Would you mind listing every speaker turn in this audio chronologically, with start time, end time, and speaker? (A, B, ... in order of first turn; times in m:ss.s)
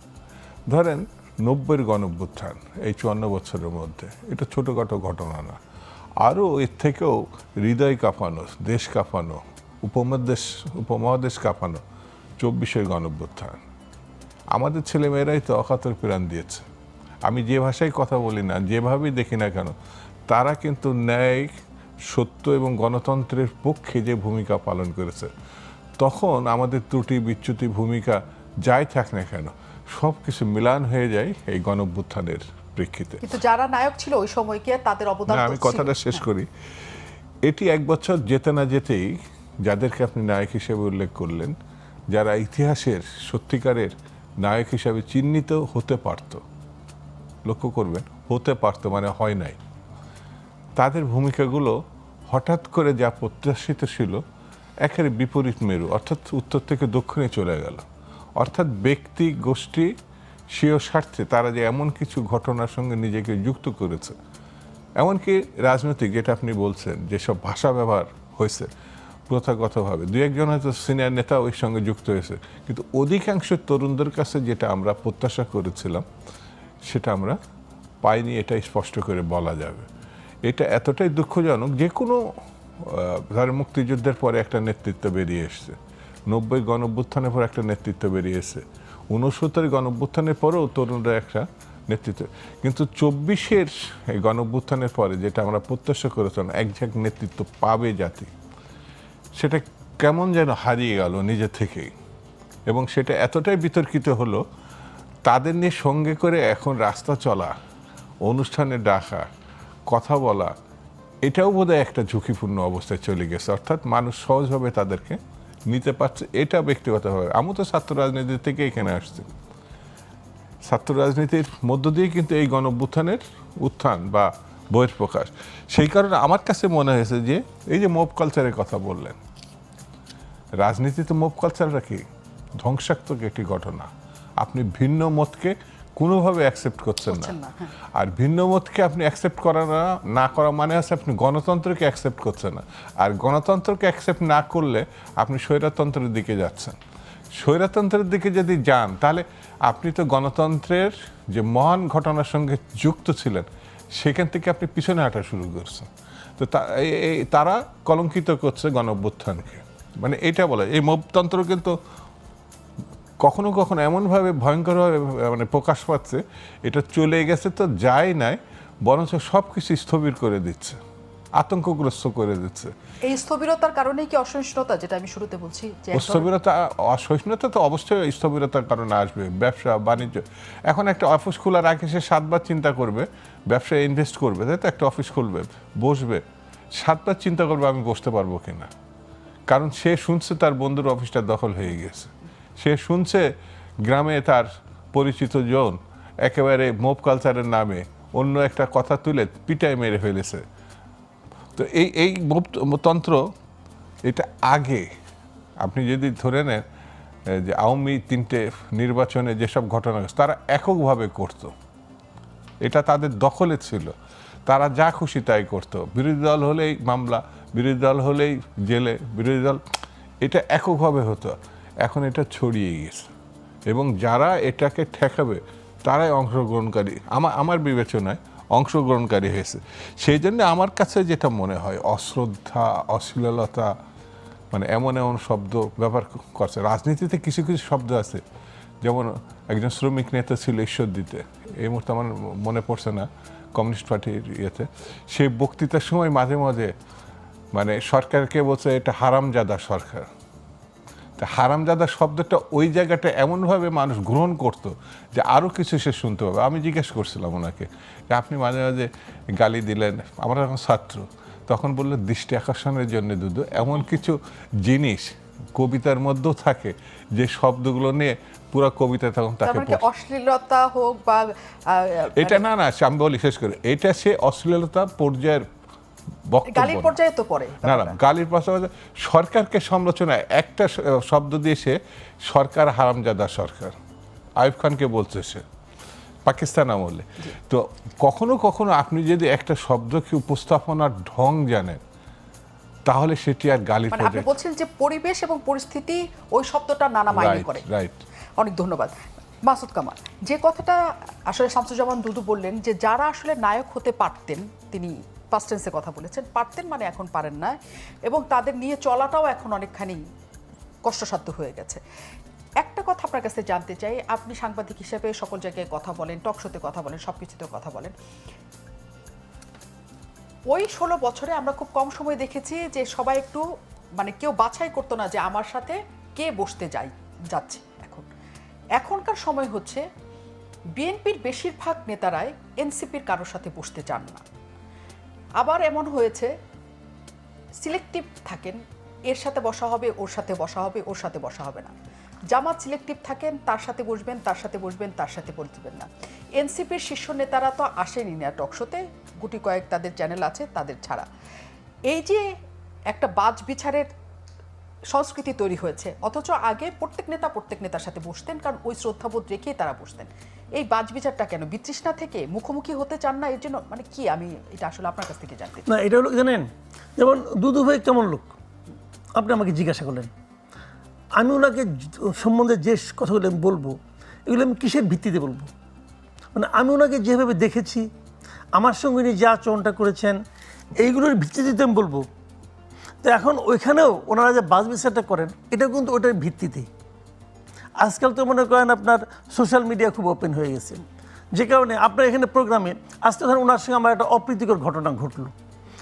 0:00.7-0:05.6 A
0:06.2-0:11.8 A
0:12.4-0:13.6 A
0:14.5-0:16.7 A
0:17.2-0:19.7 A
0:20.3-0:21.5 A
0:22.1-0:25.3 A
0:26.0-0:33.2 A
0:33.2-0:36.2 B
0:35.3-0:36.5 A
0:37.4-0:41.5 A
0:42.1-0:46.4 A
0:47.4-0:49.6 A
0:50.8-0:51.8 A
0:52.3-0:54.2 A
0:54.8-0:57.8 A
0:58.4-0:59.9 A
1:00.5-1:04.1 A
1:05.0-1:08.7 A
1:09.3-1:16.0 A
1:16.8-1:17.4 A
1:18.0-1:19.8 A
1:20.4-1:22.2 A
1:22.8-1:25.8 A
1:26.3-1:38.3 A
1:39.4-1:41.9 A
1:42.7-1:44.4 A
1:45.3-1:47.5 A
1:48.2-1:49.3 A
1:49.9-1:50.5 A
1:51.2-1:55.2 A
1:55.7-1:59.3 A
2:00.6-2:09.2 A
2:10.6-2:12.0 A
2:12.6-2:13.9 A
2:14.4-2:17.3 A
2:17.1-2:17.7 B
2:17.9-2:26.8 A
2:27.4-2:41.8 A
2:43.2-2:50.8 A
2:51.4-2:52.7 A
2:53.1-2:56.3 B
2:55.9-3:06.2 A
3:06.8-3:08.7 A
3:09.5-3:13.2 A
3:13.8-3:20.4 A
3:21.6-3:23.2 A
3:24.0-3:24.9 A
3:25.6-3:26.6 A
3:27.4-3:31.5 A
3:32.6-3:33.9 A
3:34.5-3:39.6 A
3:40.2-3:43.0 A
3:43.7-3:53.7 A
3:54.5-3:58.2 A
3:58.8-4:06.7 A
4:07.5-4:10.1 A
4:11.2-4:29.8 A
4:29.4-4:32.4 B
4:32.2-4:35.4 A
4:36.3-4:36.9 A
4:36.5-4:38.0 B
4:37.6-4:43.8 A
4:44.4-4:45.4 A
4:46.3-4:51.8 A
4:52.9-4:54.3 A
4:53.9-4:57.6 B
4:57.1-4:58.0 A
4:58.4-5:00.8 B
5:01.3-5:10.0 B
5:10.8-5:11.8 B
5:12.6-5:17.9 B
5:20.5-5:23.4 B
5:24.0-5:28.1 B
5:28.8-5:29.8 B
5:30.8-5:34.2 B
5:35.4-5:36.3 B
5:37.6-5:38.6 B
5:39.1-5:41.7 B
5:42.3-5:51.1 B
5:51.9-5:52.2 B
5:52.9-5:53.9 B
5:54.9-6:05.7 B
6:05.7-6:08.3 C
6:09.2-6:10.1 C
6:11.2-6:13.8 C
6:14.3-6:15.5 C
6:16.3-6:17.8 C
6:18.6-6:20.2 C
6:20.8-6:22.0 C
6:23.0-6:26.7 C
6:27.8-6:30.8 C
6:31.3-6:35.3 C